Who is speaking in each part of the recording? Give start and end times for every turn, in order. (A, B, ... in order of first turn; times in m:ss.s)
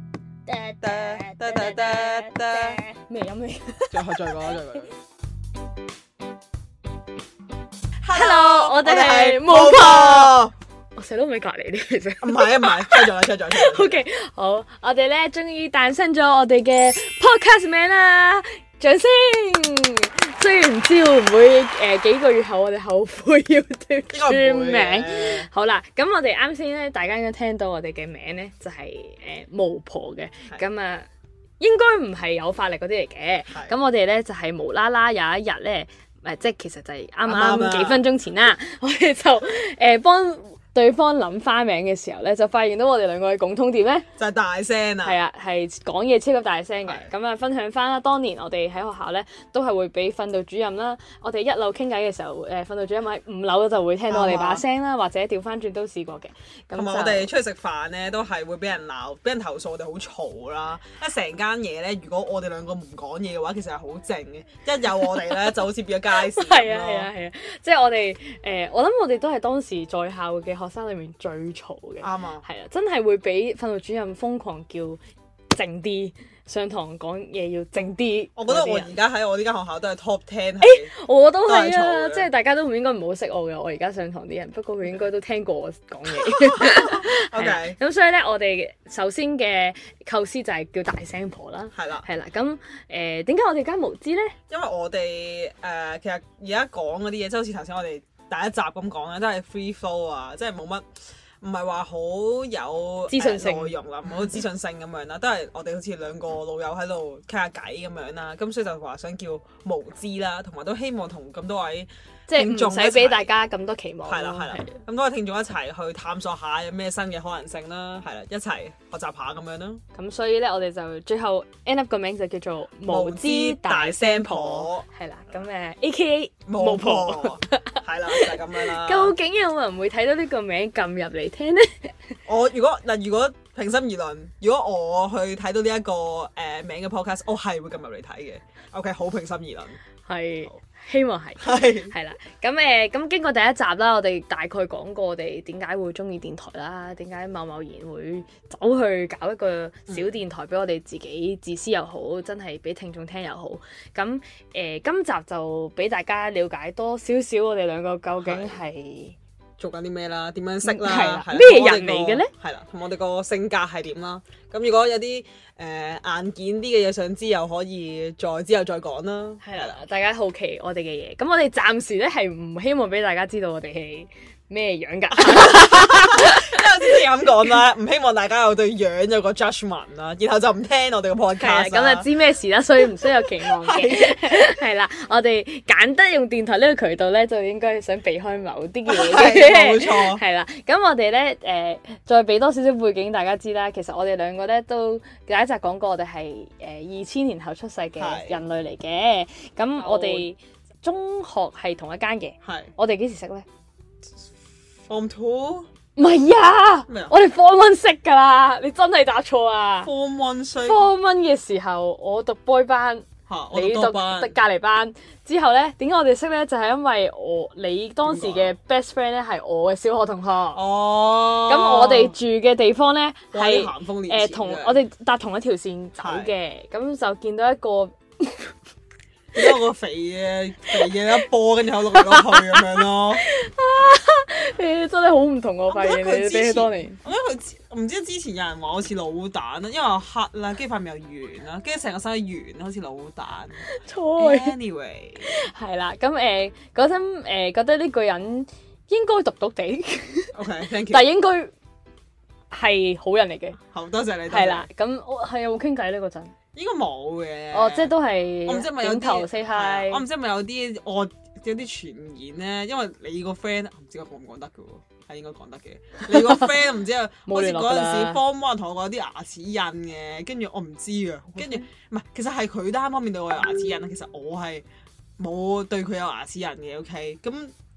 0:00.5-0:04.4 A
0:00.8-0:02.9 B
0:03.9-0:04.9 B
0:08.0-0:10.5 B
0:08.1-0:10.4 A
0:11.0-0:31.1 A
0:12.2-0:14.0 B
0:24.1-0:25.5 B
0:31.6-0:44.0 A
0:37.2-0:38.0 B
0:44.2-0:45.2 B
0:45.0-0:57.3 A
0:54.1-0:54.6 B
0:56.7-1:07.1 B
1:05.0-1:05.4 A
1:06.2-1:15.0 A
1:12.0-1:12.4 B
1:15.5-1:18.9 A
1:18.4-1:20.9 B
1:20.6-1:34.4 A
1:21.4-1:22.3 B
1:26.1-1:27.8 B
1:31.7-1:32.1 B
1:34.5-1:40.9 B
1:41.4-1:53.3 B
1:43.1-1:43.7 A
1:52.3-1:54.8 A
1:54.0-1:59.8 B
1:59.9-2:12.2 A
2:02.9-2:04.8 B
2:06.5-2:09.1 B
2:12.2-2:19.8 B
2:20.0-2:39.2 A
2:21.4-2:21.9 B
2:38.2-2:38.6 B
2:39.6-2:49.8 B
2:40.6-2:42.3 A
2:49.4-2:57.3 A
2:55.2-3:02.1 B
3:01.4-3:23.4 A
3:03.0-3:04.4 B
3:08.9-3:10.2 B
3:18.0-3:18.4 B
3:19.8-3:20.3 B
3:22.4-3:22.7 B
3:24.8-3:25.7 B
3:26.0-3:29.9 A
3:26.9-3:27.1 B
3:29.8-3:30.9 B
3:30.6-3:40.6 A
3:33.3-3:34.3 B
3:38.0-3:38.5 B
3:40.5-3:42.2 B
3:41.4-3:48.5 A
3:43.3-3:44.8 B
3:46.0-3:46.3 B
3:49.3-3:53.2 B
3:50.7-3:51.2 A
3:51.9-3:57.0 A
3:55.7-4:03.6 B
4:03.6-4:04.5 A
4:04.2-4:05.3 B
4:05.2-4:10.3 A
4:10.3-4:11.1 B
4:10.9-4:11.5 A
4:12.5-4:13.6 A
4:13.7-4:14.7 B
4:14.3-4:16.3 A
4:16.5-4:17.9 B
4:17.5-4:20.0 A
4:18.4-4:34.6 B
4:26.1-4:26.5 A
4:27.3-4:28.2 A
4:35.2-4:37.5 B